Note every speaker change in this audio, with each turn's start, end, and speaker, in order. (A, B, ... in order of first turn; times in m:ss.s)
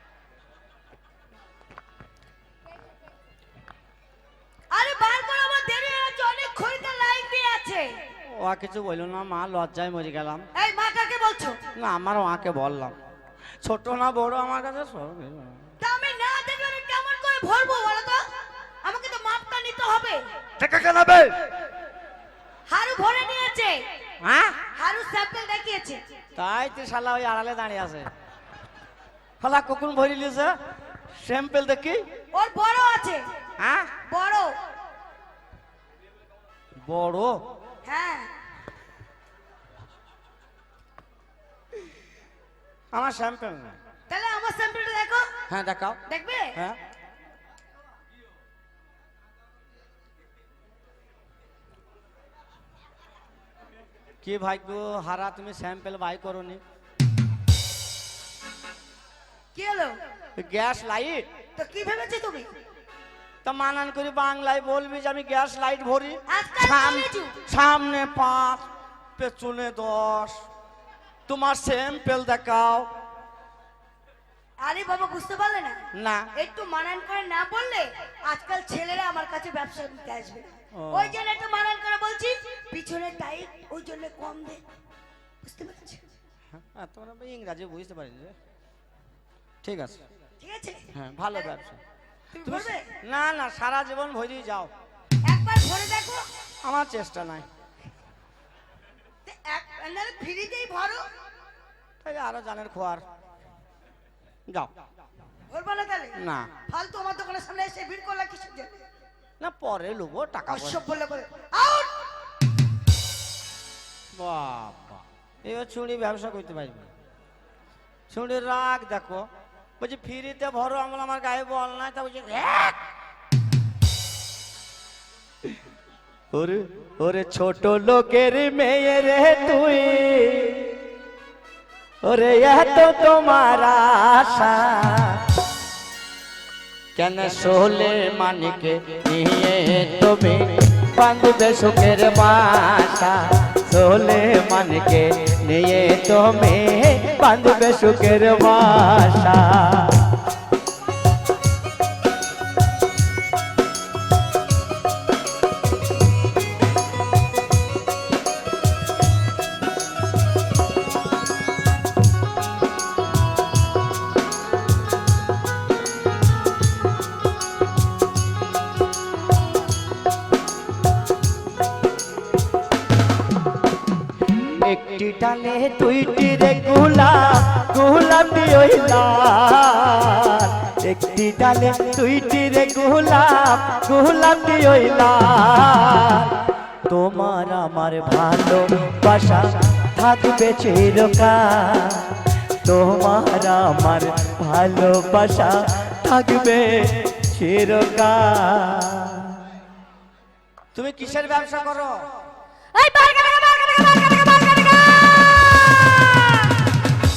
0:04.7-0:07.9 A
0:08.4-0:10.5 B
0:10.6-0:11.6 A
0:11.8-0:13.0 B
0:13.6-0:15.7 B
0:15.8-0:18.2 A
0:18.8-0:20.2 A
0:20.6-0:21.4 B
0:22.7-0:23.8 A
0:24.2-0:24.6 B
0:24.8-0:26.0 A
0:26.4-0:28.1 B
0:29.4-0:30.5 B
0:31.2-0:32.0 B
0:32.3-0:33.2 A
0:33.6-0:33.9 B
0:34.1-0:34.5 A
0:36.8-0:37.4 B
0:37.9-0:38.3 A
0:42.9-0:43.8 B
0:44.1-0:45.3 A
0:45.5-0:46.0 B
0:46.1-0:46.5 A
0:54.2-0:56.6 B
0:59.6-1:00.0 A
1:00.4-1:01.3 B
1:01.6-1:02.5 A
1:03.4-1:08.7 B
1:06.3-1:07.4 A
1:09.2-1:10.4 B
1:11.3-1:12.9 B
1:14.6-1:15.8 A
1:16.0-1:16.3 B
1:16.4-1:24.6 A
1:20.7-1:21.1 B
1:25.4-1:26.0 A
1:26.5-1:28.4 B
1:29.6-1:30.0 B
1:30.4-1:30.8 A
1:30.9-1:31.8 B
1:32.3-1:32.9 A
1:32.4-1:34.7 B
1:35.3-1:36.2 A
1:36.6-1:37.5 B
1:39.3-1:41.0 A
1:42.0-1:43.0 B
1:45.5-1:46.2 A
1:46.2-1:46.5 B
1:46.7-1:48.8 A
1:49.4-1:50.8 B
1:50.5-1:52.0 A
1:54.2-1:56.9 B
1:58.1-1:59.2 B
1:59.8-2:02.8 B
2:06.3-2:10.7 B
2:12.0-2:15.3 B
2:17.0-2:30.1 B
2:54.6-3:19.4 B
3:20.8-3:22.1 B
3:22.7-3:26.6 C